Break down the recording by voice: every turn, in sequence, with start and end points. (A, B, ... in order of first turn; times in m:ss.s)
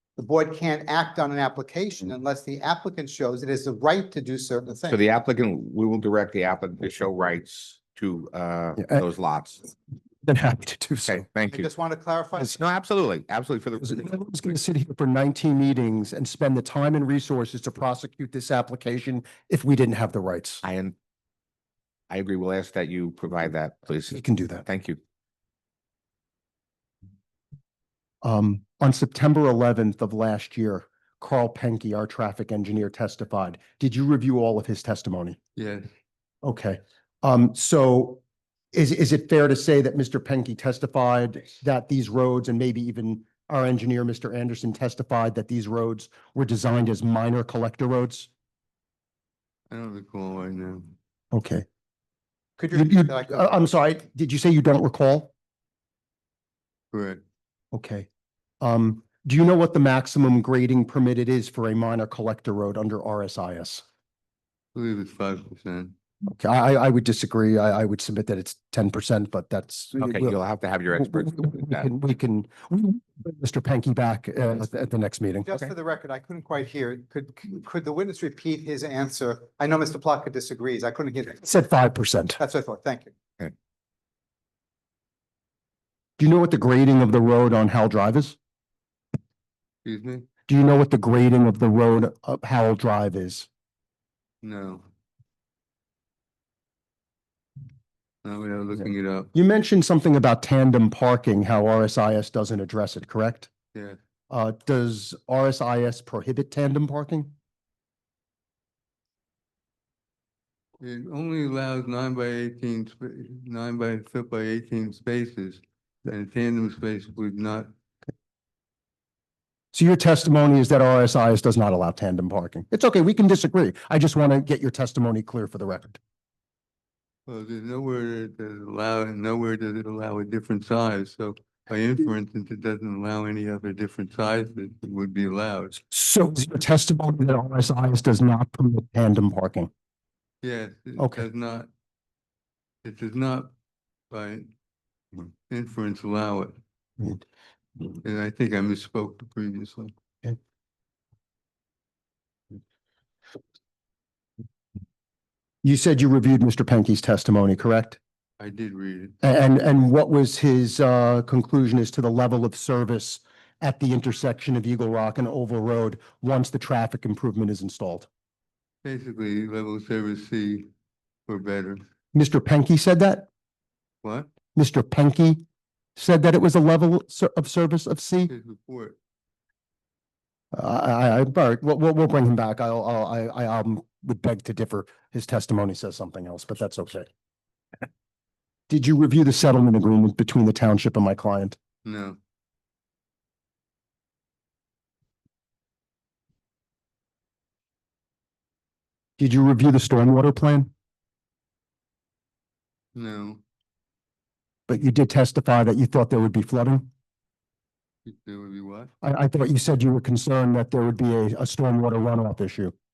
0:00.2-0:05.0 A
0:04.9-0:09.6 B
0:08.8-0:09.1 C
0:10.2-0:11.2 C
0:11.1-0:11.7 B
0:11.5-0:12.6 A
0:12.4-0:14.1 B
0:13.8-0:20.6 C
0:20.6-0:20.9 B
0:22.1-0:25.0 B
0:24.1-0:24.6 C
0:28.2-0:35.4 C
0:35.6-0:35.9 D
0:36.4-0:38.2 C
0:38.7-0:48.3 C
0:49.7-0:50.9 D
0:51.3-0:51.6 C
0:52.6-0:53.7 A
0:52.7-0:55.3 C
0:56.9-0:57.2 D
0:57.7-0:58.1 C
0:58.6-1:03.8 C
1:04.7-1:05.9 D
1:06.2-1:10.3 C
1:10.0-1:11.9 B
1:10.9-1:15.7 C
1:15.4-1:21.4 A
1:21.4-1:22.4 C
1:22.4-1:23.1 A
1:26.2-1:28.4 C
1:29.8-1:30.3 D
1:30.5-1:33.5 C
1:34.4-1:34.8 D
1:38.2-1:39.3 D
1:39.3-1:43.5 C
1:44.3-1:47.3 C
1:50.8-1:57.7 D
1:59.7-2:06.0 C
2:07.3-2:15.8 D
2:15.9-2:19.7 C
2:20.4-2:21.7 D
2:21.0-2:21.2 C
2:22.8-2:23.5 D
2:24.1-2:24.5 D
2:25.2-2:26.5 D
2:27.8-2:29.9 D
2:35.6-2:38.0 C
2:38.4-2:39.1 D
2:39.2-2:48.1 C
2:48.8-2:50.7 D
2:51.3-2:51.8 D
2:52.1-2:53.3 C
2:54.0-2:54.3 D
2:54.5-2:55.4 C
2:56.0-2:58.3 C
2:58.3-2:59.0 D
3:00.5-3:07.1 C
3:08.7-3:11.6 C
3:11.8-3:12.2 D
3:19.2-3:20.7 C
3:22.9-3:23.4 D
3:24.7-3:26.9 C
3:28.0-3:28.9 D
3:29.0-3:32.7 C